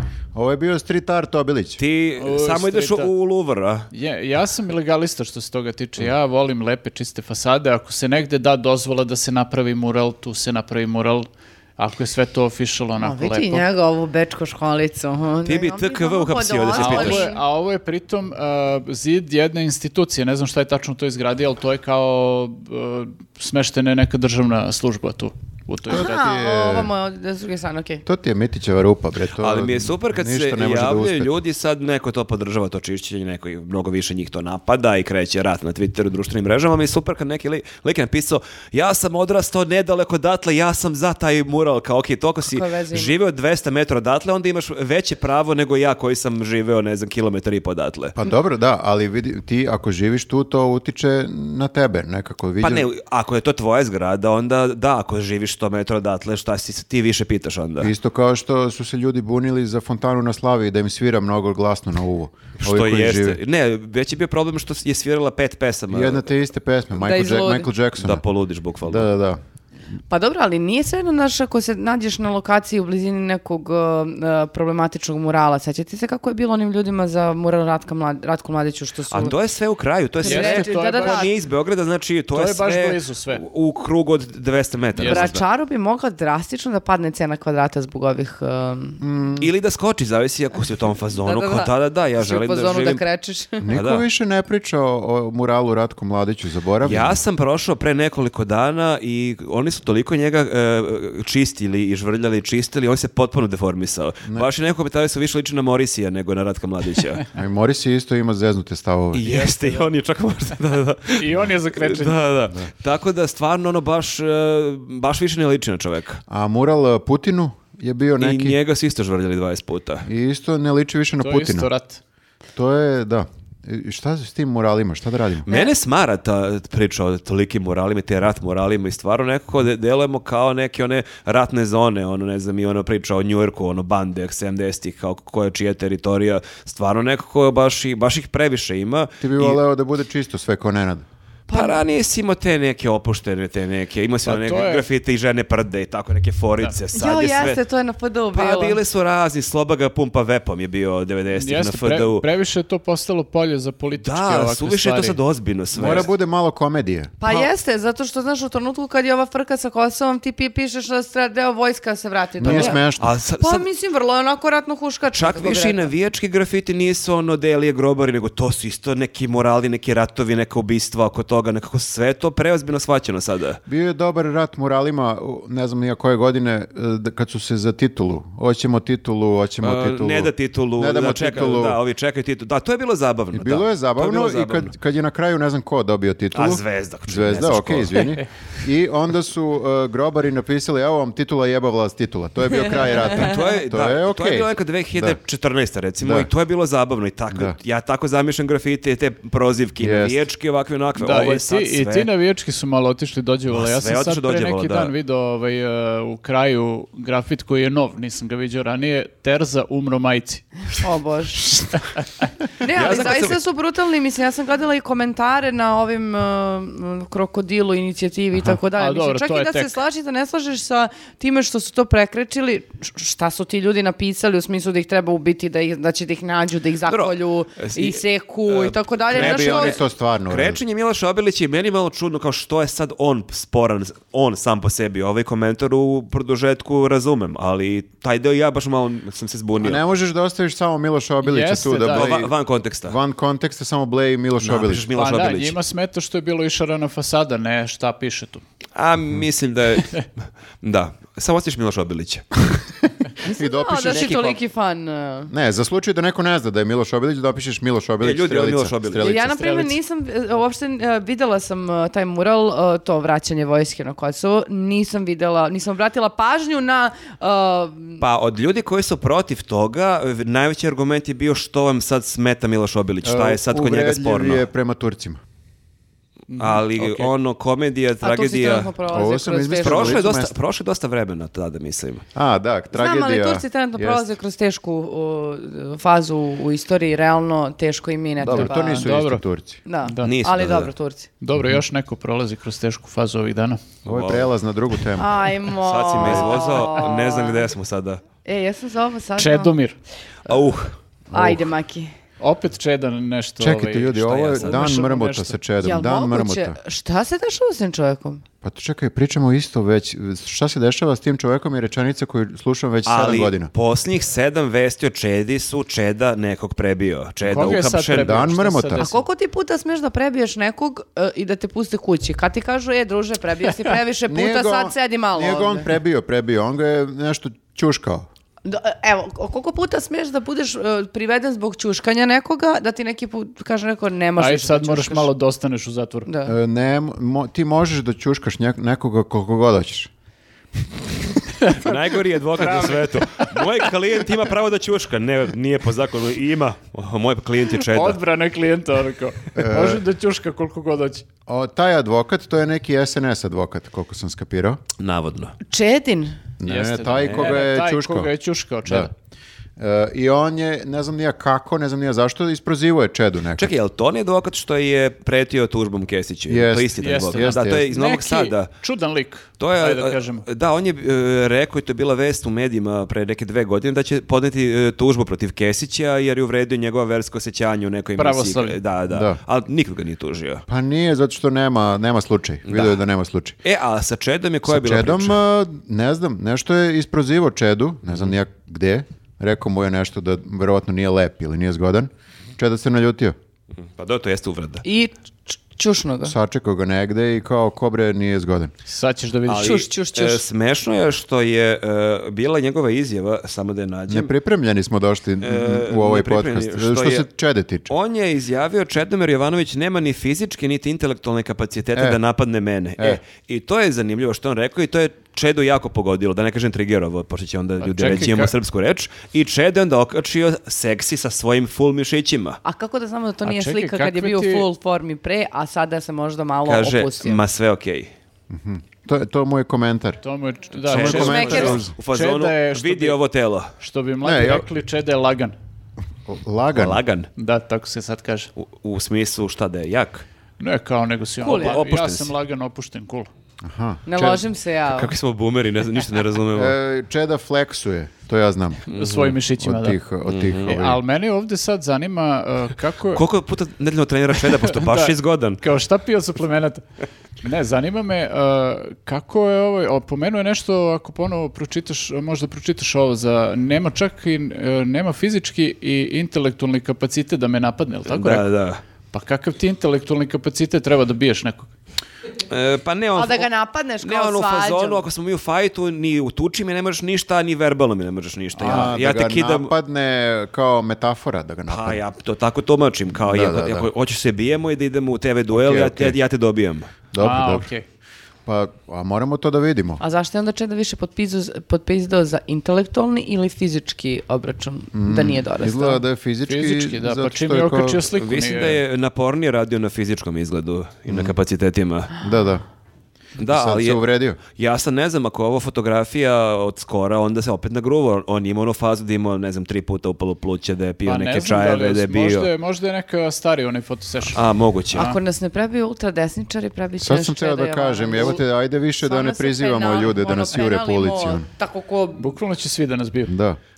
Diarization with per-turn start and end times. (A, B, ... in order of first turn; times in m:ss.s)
0:00.3-0:01.8 A
0:01.8-0:03.9 B
0:02.2-0:03.1 C
0:03.9-0:13.6 C
0:13.0-0:17.4 D
0:15.4-0:17.3 B
0:16.8-0:26.1 C
0:25.9-0:26.9 A
0:25.9-0:28.0 D
0:28.0-0:31.4 A
0:29.4-0:48.2 B
0:42.4-0:43.2 D
0:48.2-0:52.9 A
0:52.6-0:57.9 B
0:57.8-1:03.4 A
1:02.6-1:06.3 B
1:05.9-1:08.2 A
1:07.0-1:07.7 D
1:08.0-1:09.1 B
1:08.8-1:09.4 A
1:10.1-1:19.3 D
1:19.1-1:25.4 B
1:20.2-1:21.3 D
1:20.2-1:21.3 C
1:22.3-1:23.4 C
1:25.0-1:25.3 C
1:25.0-1:29.0 D
1:29.0-1:29.5 A
1:29.4-1:33.0 B
1:31.2-1:33.7 D
1:33.6-1:37.2 A
1:33.7-1:34.0 B
1:36.8-1:47.2 B
1:47.3-1:49.3 A
1:49.1-1:56.2 B
1:49.3-1:49.9 C
1:51.2-1:52.2 C
1:56.3-1:58.6 A
1:58.2-2:00.0 B
2:00.0-2:01.7 A
2:01.2-2:02.0 C
2:02.6-2:05.5 A
2:05.4-2:19.6 B
2:19.2-2:21.0 A
2:21.5-2:21.8 D
2:21.5-2:27.6 B
2:24.2-2:24.8 C
2:26.9-2:28.8 D
2:28.3-2:32.2 B
2:31.3-2:35.2 C
2:34.0-2:36.1 B
2:35.7-2:37.1 A
2:37.2-2:42.9 D
2:42.4-2:43.1 A
2:42.4-2:43.6 B
2:43.4-2:45.9 D
2:45.1-2:53.6 B
2:53.7-3:01.8 A
2:59.6-3:04.7 B
3:03.3-3:15.2 A
3:06.3-3:08.2 B
3:13.0-3:22.1 B
3:16.0-3:16.3 A
3:19.8-3:20.2 A
3:21.0-3:30.6 C
3:23.5-3:24.9 B
3:30.8-3:31.7 D
3:32.6-3:49.8 D
3:32.7-3:33.4 B
3:38.7-3:39.8 C
3:46.9-3:59.8 B
3:49.1-3:50.6 A
3:59.6-4:02.3 A
4:01.2-4:02.1 C
4:01.9-4:03.0 B
4:02.8-4:04.9 A
4:04.4-4:05.6 B
4:04.9-4:08.4 C
4:08.8-4:10.1 B
4:10.6-4:12.6 B
4:13.2-4:14.4 A
4:13.2-4:15.3 D
4:13.8-4:14.3 B
4:15.3-4:19.7 A
4:18.0-4:19.1 B
4:19.0-4:28.0 D
4:19.3-4:19.7 C
4:28.0-4:34.4 B
4:33.0-4:35.2 A
4:36.3-4:37.1 C
4:36.3-4:38.7 B
4:38.0-4:40.0 D
4:38.9-4:40.3 A
4:39.6-4:42.0 B
4:42.1-4:44.1 A
4:42.7-4:48.9 D
4:48.2-4:49.6 A
4:48.3-4:49.2 C
4:49.6-4:51.1 D
4:49.8-4:50.1 C
4:50.0-4:50.7 B
4:51.2-4:53.6 C
4:53.8-4:54.3 B
4:53.8-4:55.2 A
4:55.0-4:57.5 D
4:55.6-4:58.0 B
4:58.2-4:59.5 D
4:59.2-4:59.8 C
5:00.2-5:00.7 B
5:01.1-5:01.5 A
5:01.1-5:01.9 D
5:02.2-5:05.4 C
5:03.4-5:06.6 A
5:04.0-5:04.7 B
5:05.6-5:08.2 D
5:08.4-5:13.5 A
5:12.8-5:18.2 B
5:17.2-5:19.0 C
5:17.4-5:18.9 A
5:18.8-5:25.7 D
5:24.1-5:28.1 A
5:28.4-5:35.1 D
5:34.2-5:36.1 C
5:36.0-5:36.3 D
5:36.2-5:39.9 A
5:41.4-5:41.8 C
5:41.5-5:48.0 B
5:42.4-5:43.5 C
5:47.6-5:51.0 C
5:49.4-5:49.8 A
5:51.3-5:54.6 A
5:54.8-5:55.3 B
5:55.4-5:56.2 D
5:56.4-5:58.1 A
5:56.4-5:58.9 C
5:57.0-5:57.4 B
5:58.6-5:58.9 A
5:59.6-6:03.5 A
6:03.4-6:08.5 B
6:06.3-6:07.6 A
6:06.8-6:10.2 C
6:09.4-6:20.4 B
6:18.0-6:18.6 C
6:18.9-6:19.2 A
6:20.5-6:23.4 A
6:22.5-6:22.8 B
6:23.4-6:25.2 B
6:24.4-6:33.1 A
6:33.6-6:34.6 B
6:34.6-6:36.1 D
6:36.0-6:38.5 A
6:38.7-6:39.6 C
6:39.3-6:44.1 B
6:39.3-6:40.2 D
6:43.9-6:47.7 A
6:45.2-6:47.0 B
6:47.7-7:02.4 B
6:57.6-6:58.3 C
7:02.4-7:07.2 D
7:03.2-7:04.4 C
7:06.4-7:07.9 B
7:08.3-7:10.0 A
7:10.0-7:13.0 C
7:10.6-7:13.5 B
7:10.7-7:11.7 A
7:10.9-7:11.6 D
7:13.6-7:15.4 C
7:14.0-7:14.5 A
7:16.0-7:16.8 A
7:16.5-7:17.1 B
7:17.2-7:18.3 C
7:18.4-7:20.0 B
7:20.4-7:23.1 C
7:21.2-7:21.6 D
7:21.2-7:22.1 B
7:23.4-7:24.2 A
7:23.8-7:24.9 D
7:24.7-7:26.5 B
7:26.3-7:28.7 A
7:28.7-7:29.2 B
7:28.7-7:29.8 C
7:29.4-7:30.8 A
7:30.0-7:30.5 B
7:30.4-7:33.0 C
7:32.9-7:35.4 B
7:34.2-7:36.6 C
7:37.2-7:48.3 C
7:47.9-7:48.6 B
7:48.9-7:51.5 C
7:52.3-7:53.3 B
7:53.0-7:54.8 D
7:53.8-7:59.5 B
7:58.4-7:58.7 C
7:58.4-8:01.8 A
8:01.5-8:06.7 B
8:03.0-8:03.7 A
8:05.3-8:06.0 A
8:06.9-8:07.5 A
8:07.0-8:07.6 C
8:08.2-8:09.8 A
8:09.8-8:15.8 D
8:14.7-8:17.8 A
8:16.3-8:18.6 C
8:17.9-8:21.9 B
8:22.0-8:22.4 A
8:23.2-8:32.3 B
8:23.2-8:24.2 A
8:30.8-8:35.0 C
8:34.1-8:34.9 B
8:34.7-8:38.2 D
8:36.8-8:41.2 A
8:38.8-8:42.1 D
8:42.0-8:43.1 C
8:43.1-8:43.4 A